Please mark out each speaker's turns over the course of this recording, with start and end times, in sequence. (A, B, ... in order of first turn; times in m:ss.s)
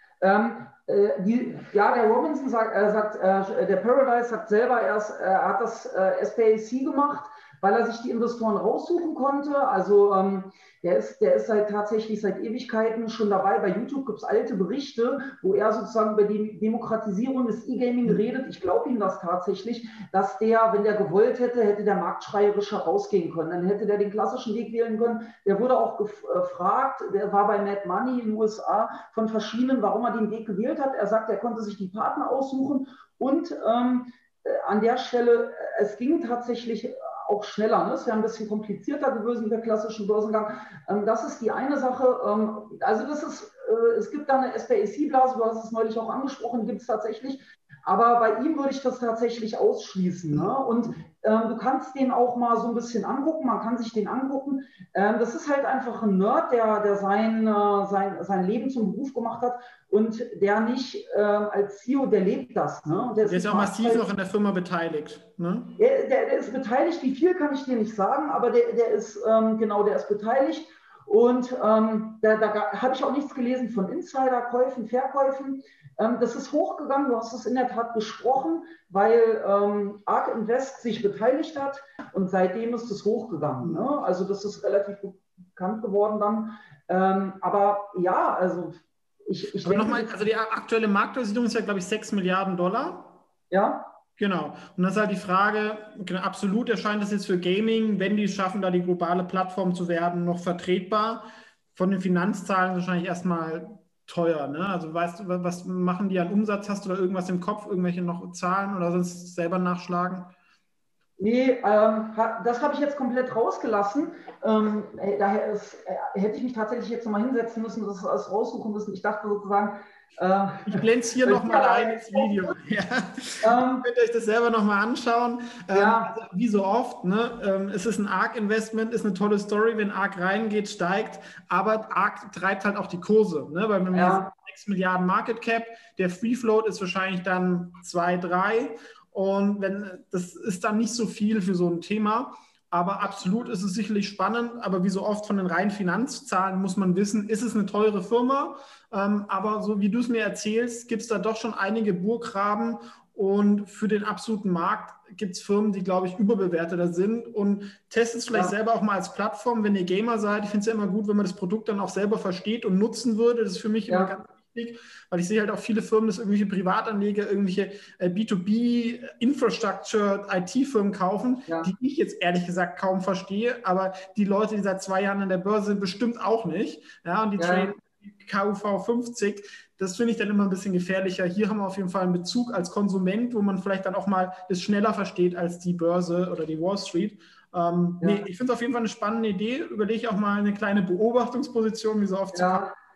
0:00.2-1:04.0 A
1:03.2-1:05.8 B
1:05.8-1:30.2 A
1:29.6-1:33.2 B
1:33.5-1:33.9 A
1:34.2-1:50.3 B
1:51.2-2:02.6 A
2:00.7-3:12.7 B
2:03.4-2:03.9 A
2:05.7-2:06.1 A
2:13.9-2:14.3 A
2:43.9-2:44.1 A
2:57.4-2:57.7 A
3:08.0-3:08.2 A
3:12.3-3:12.7 A